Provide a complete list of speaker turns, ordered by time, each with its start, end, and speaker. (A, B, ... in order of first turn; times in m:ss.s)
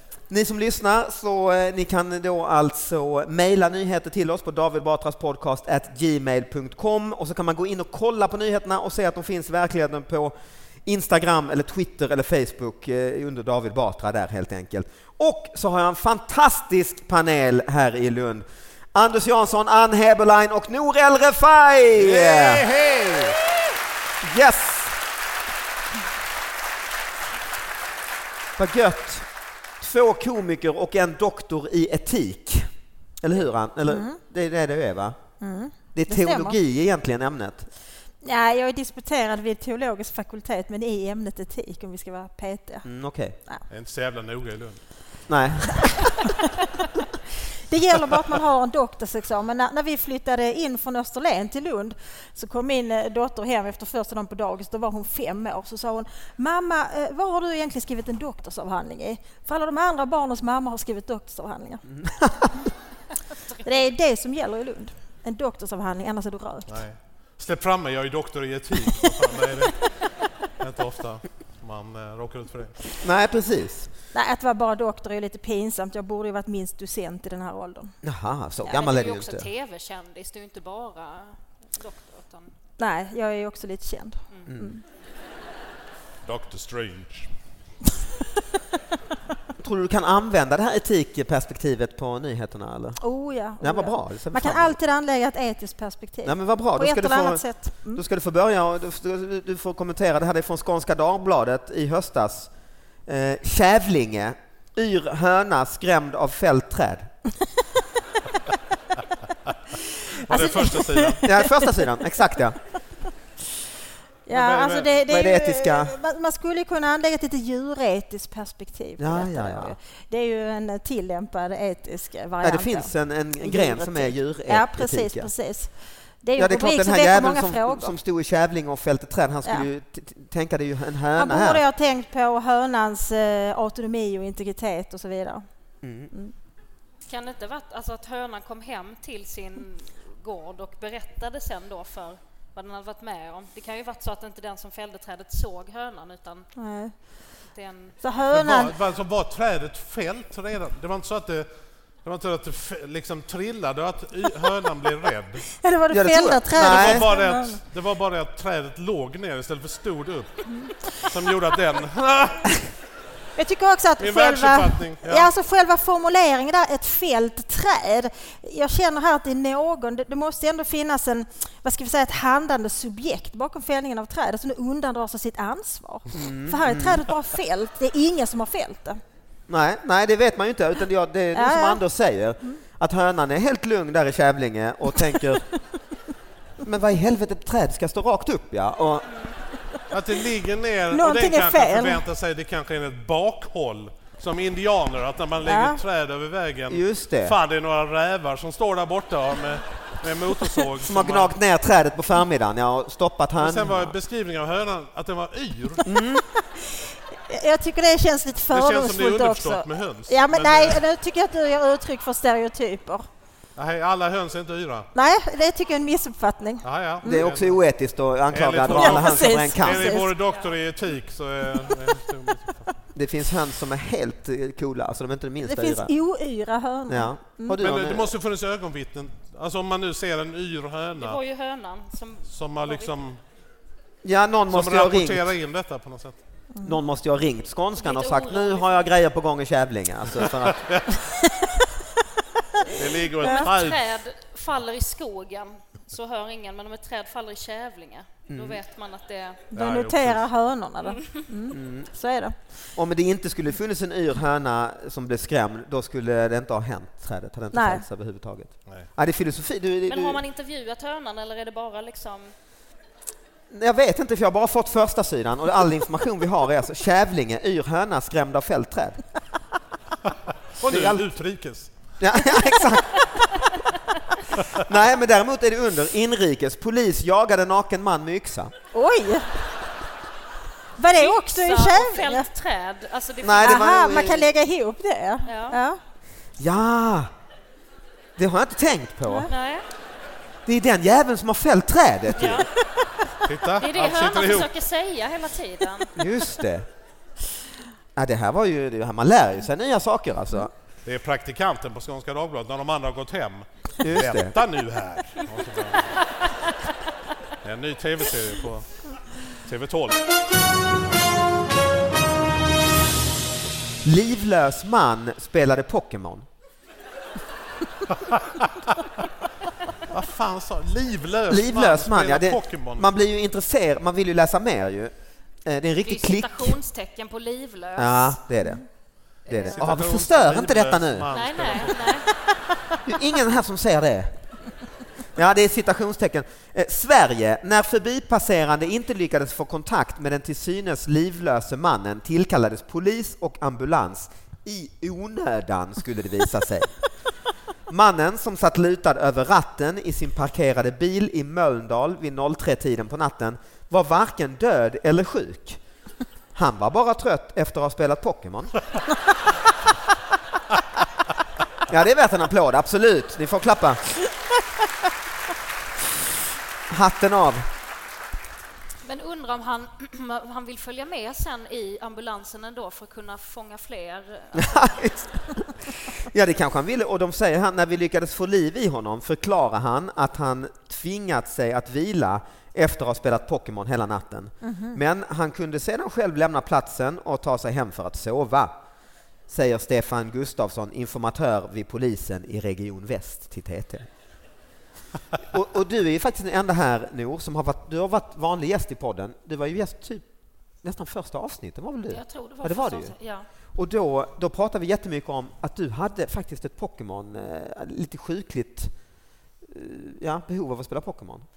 0:00.3-0:10.3 A
0:10.8-0:22.7 A
0:22.0-0:23.4 B
0:24.2-0:24.9 A
0:28.6-0:29.3 A
0:29.8-0:32.7 A
0:33.2-0:35.2 A
0:33.9-0:34.2 C
0:35.4-0:36.6 C
0:35.9-0:37.7 A
0:38.2-0:42.9 C
0:42.8-0:43.4 A
0:43.7-0:44.8 B
0:45.3-0:46.1 A
0:47.7-1:01.8 C
1:01.9-1:02.7 A
1:03.6-1:06.7 C
1:06.7-1:09.9 B
1:10.6-1:12.8 B
1:13.0-1:13.9 A
1:14.1-1:18.0 C
1:18.0-1:19.5 A
1:18.7-1:22.5 D
1:22.8-1:24.8 C
1:26.2-1:27.3 B
1:29.6-1:33.0 A
1:33.0-1:38.0 C
1:33.6-1:34.8 A
1:36.2-1:42.5 A
1:43.1-1:47.1 A
1:50.2-1:51.3 B
1:50.3-1:51.2 C
1:51.2-1:52.6 A
1:54.2-2:07.9 C
1:54.3-1:54.9 B
1:55.0-1:55.9 A
1:59.0-1:59.7 A
2:02.4-2:05.3 A
2:06.4-2:11.6 A
2:11.2-2:15.4 C
2:15.8-2:16.1 A
2:17.0-2:26.5 D
2:26.6-2:26.9 C
2:27.5-2:28.0 D
2:28.0-2:28.7 C
2:28.3-2:31.5 B
2:32.0-2:35.4 B
2:35.6-2:37.6 C
2:35.9-2:37.0 A
2:36.6-2:42.6 B
2:43.4-2:59.0 C
2:44.0-2:45.3 B
2:56.1-2:57.0 A
2:59.5-3:05.4 A
3:01.3-3:01.8 C
3:06.6-3:09.1 A
3:09.0-3:09.4 D
3:09.9-3:21.3 B
3:10.9-3:12.0 C
3:15.4-3:15.8 C
3:16.7-3:17.4 A
3:20.8-3:23.9 A
3:23.4-3:25.8 B
3:25.8-3:26.2 A
3:26.3-3:33.1 C
3:28.5-3:30.8 B
3:33.6-3:34.9 B
3:34.9-3:37.2 C
3:36.6-3:37.6 B
3:37.0-3:40.0 A
3:38.3-3:42.7 B
3:38.7-3:40.1 C
3:40.2-3:40.5 D
3:42.9-3:45.9 A
3:45.4-3:47.6 C
3:46.9-3:48.1 A
3:47.6-3:51.2 B
3:51.0-3:52.9 D
3:52.3-3:53.2 B
3:54.0-3:55.3 A
3:54.5-3:56.2 B
3:56.5-3:56.8 C
3:56.6-4:00.6 A
3:57.8-3:58.9 D
4:00.4-4:00.9 B
4:02.7-4:03.8 B
4:03.2-4:09.4 D
4:03.2-4:03.5 C
4:08.3-4:08.6 A
4:09.5-4:12.4 C
4:09.5-4:10.2 B
4:10.8-4:11.2 D
4:11.5-4:11.9 A
4:12.8-4:20.2 A
4:17.5-4:17.8 C
4:19.9-4:22.3 D
4:23.5-4:29.0 A
4:30.6-4:31.7 B
4:30.7-4:31.1 A
4:32.0-4:33.1 A
4:34.5-4:38.5 A
4:38.7-4:39.3 C
4:40.8-4:42.3 C
4:41.0-4:43.8 D
4:43.2-4:44.2 A
4:43.4-4:45.8 C
4:45.2-4:45.6 D
4:46.4-4:47.1 A
4:48.2-4:49.3 A
4:49.3-4:49.6 D
4:50.4-4:52.5 A
4:52.1-4:52.5 D
4:53.2-4:54.5 B
4:53.6-4:56.0 D
4:56.0-4:56.7 A
4:58.0-5:00.5 A
5:00.8-5:06.0 B
5:03.8-5:04.3 A
5:07.4-5:10.0 B
5:13.8-5:16.2 A
5:17.9-5:18.7 B
5:19.9-5:22.9 B
5:21.3-5:24.9 A
5:25.4-5:26.6 A
5:25.8-5:28.2 D
5:27.8-5:28.6 A
5:29.2-5:31.1 A
5:29.3-5:29.8 D
5:29.4-5:32.0 B
5:31.1-5:32.1 D
5:32.8-5:34.2 A
5:35.2-5:46.8 A
5:47.7-5:55.6 A
5:56.3-5:58.6 A
6:01.7-6:03.8 A
6:06.7-6:07.4 A
6:08.8-6:14.7 D
6:14.3-6:15.4 A
6:16.0-6:28.5 A
6:24.4-6:24.8 C
6:29.3-6:33.9 A
6:35.2-6:40.0 A
6:40.6-6:43.0 A
6:41.9-6:43.3 D
6:43.5-6:48.7 A
6:49.4-6:51.3 A